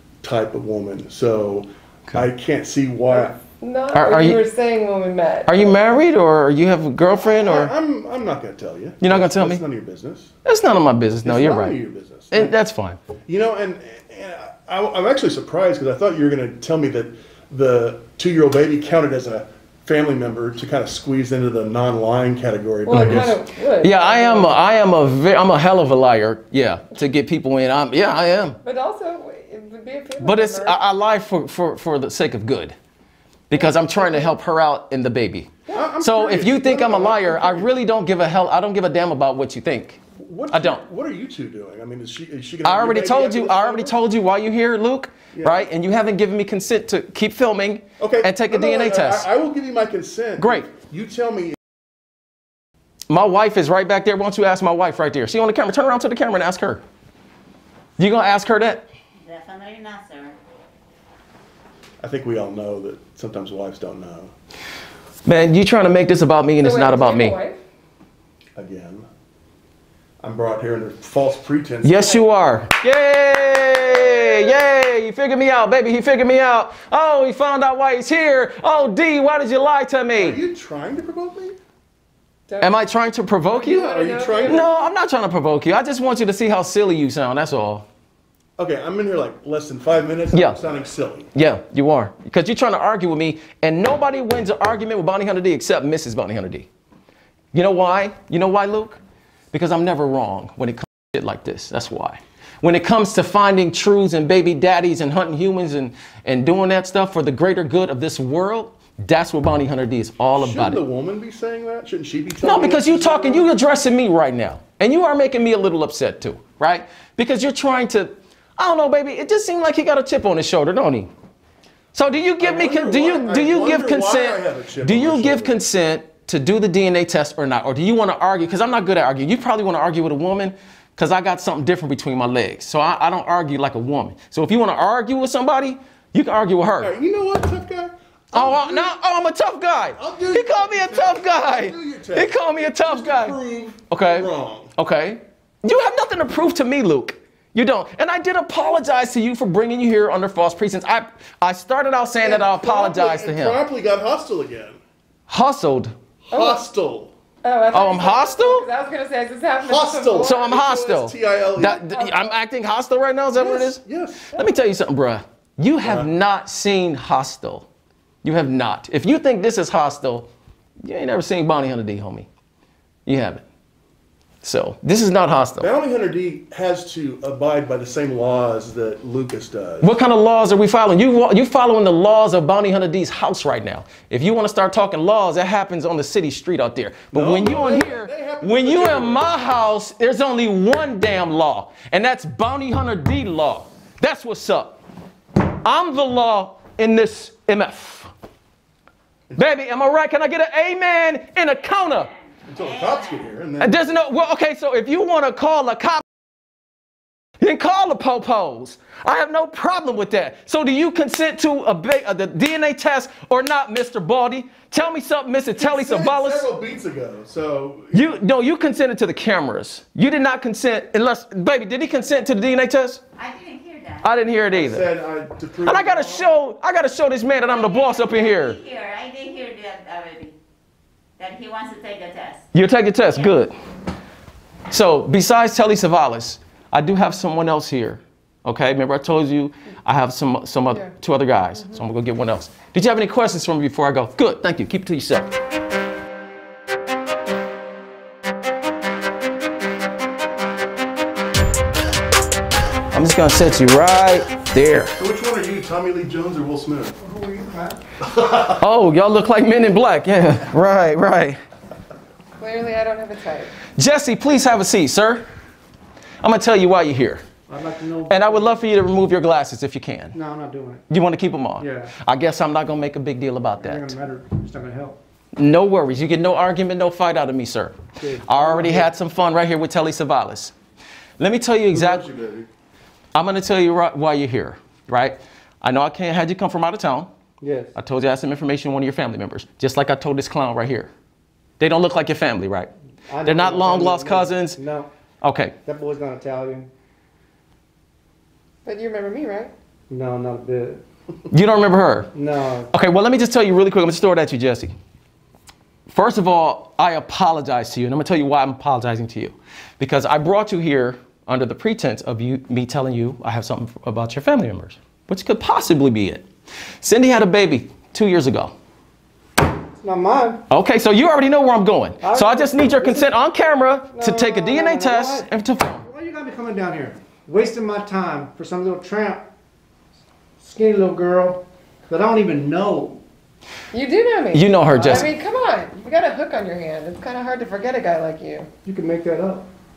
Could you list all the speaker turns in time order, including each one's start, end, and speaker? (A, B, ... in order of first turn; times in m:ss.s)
0:00.2-0:03.3 A
0:03.1-0:05.8 B
0:03.9-0:04.4 C
0:05.5-0:07.7 C
0:07.3-0:10.3 A
0:09.0-0:09.6 C
0:10.4-0:11.8 C
0:11.2-0:12.6 A
0:12.3-0:13.0 C
0:13.3-0:23.4 A
0:22.8-0:24.6 B
0:22.9-0:23.2 C
0:23.8-0:28.6 C
0:28.6-0:30.8 B
0:30.2-0:32.7 C
0:33.5-0:40.8 C
0:33.5-0:34.3 B
0:35.7-0:37.7 A
0:40.2-0:44.0 A
0:42.6-0:49.3 C
0:45.3-0:45.7 A
0:48.0-0:51.6 A
0:50.4-0:50.7 C
0:53.1-0:56.8 C
0:58.0-0:58.8 C
0:59.2-1:00.4 D
1:02.0-1:04.3 A
1:05.2-1:07.4 C
1:06.6-1:07.6 B
1:08.6-1:09.0 A
1:10.2-1:12.2 A
1:11.8-1:20.4 C
1:13.9-1:14.6 B
1:20.1-1:21.6 A
1:22.5-1:22.8 B
1:22.6-1:27.8 C
1:23.4-1:24.7 B
1:23.8-1:24.6 A
1:28.6-1:31.3 A
1:30.3-1:30.6 C
1:31.3-1:36.7 C
1:37.5-1:39.0 C
1:39.5-1:50.8 C
1:50.4-1:53.5 A
1:52.4-2:01.1 C
2:01.9-2:16.9 C
2:02.4-2:05.6 A
2:16.8-2:19.0 A
2:18.3-2:33.6 C
2:19.9-2:24.7 A
2:32.2-2:34.8 A
2:35.3-2:35.9 C
2:36.3-2:37.1 A
2:36.3-2:36.6 B
2:37.4-2:40.4 B
2:37.7-2:38.7 C
2:39.6-2:41.9 A
2:40.2-2:47.7 C
2:41.7-2:42.4 B
2:43.4-2:44.3 A
2:45.8-2:46.1 A
2:48.2-2:50.3 C
2:50.8-2:52.3 C
2:53.0-2:53.4 C
2:54.4-2:55.7 C
2:55.6-2:59.9 A
2:59.8-3:14.8 C
3:07.1-3:09.3 A
3:15.4-3:18.1 C
3:19.4-3:22.1 C
3:22.5-3:23.9 A
3:22.6-3:23.0 D
3:23.6-3:26.0 C
3:27.4-3:36.5 C
3:35.6-3:38.2 A
3:37.9-3:43.0 C
3:43.2-3:44.0 D
3:44.0-3:44.9 C
3:44.5-3:46.3 A
3:45.6-3:48.6 C
3:47.5-3:50.3 D
3:51.2-3:52.4 D
3:52.5-3:53.5 C
3:54.7-4:05.3 C
4:01.5-4:01.8 B
4:12.9-4:14.9 C
4:15.0-4:17.0 A
4:17.0-4:17.8 E
4:18.0-4:18.6 A
4:18.6-4:21.4 C
4:22.4-4:23.6 B
4:23.7-4:25.2 C
4:26.2-4:27.2 C
4:27.5-4:28.6 E
4:28.1-4:30.2 C
4:30.1-4:30.8 E
4:30.9-4:34.0 C
4:31.6-4:31.9 E
4:33.6-4:35.0 E
4:35.4-4:40.5 C
4:38.0-4:38.9 E
4:41.2-4:42.0 C
4:41.7-4:42.5 A
4:43.1-4:47.1 C
4:47.4-4:47.7 E
4:47.7-4:50.9 C
4:51.6-4:52.7 C
4:53.1-4:54.9 E
4:53.2-4:54.6 C
4:55.2-4:55.5 C
4:55.6-4:56.7 E
4:58.6-4:59.5 B
4:59.9-5:00.8 E
5:01.3-5:02.1 C
5:02.1-5:02.7 E
5:02.7-5:04.7 C
5:05.9-5:16.2 C
5:16.8-5:18.5 C
5:19.8-5:20.4 E
5:20.5-5:25.8 C
5:22.0-5:23.1 E
5:23.9-5:29.3 E
5:30.4-5:33.0 E
5:33.7-5:38.5 B
5:34.3-5:35.1 C
5:34.7-5:35.1 E
5:38.6-5:39.4 E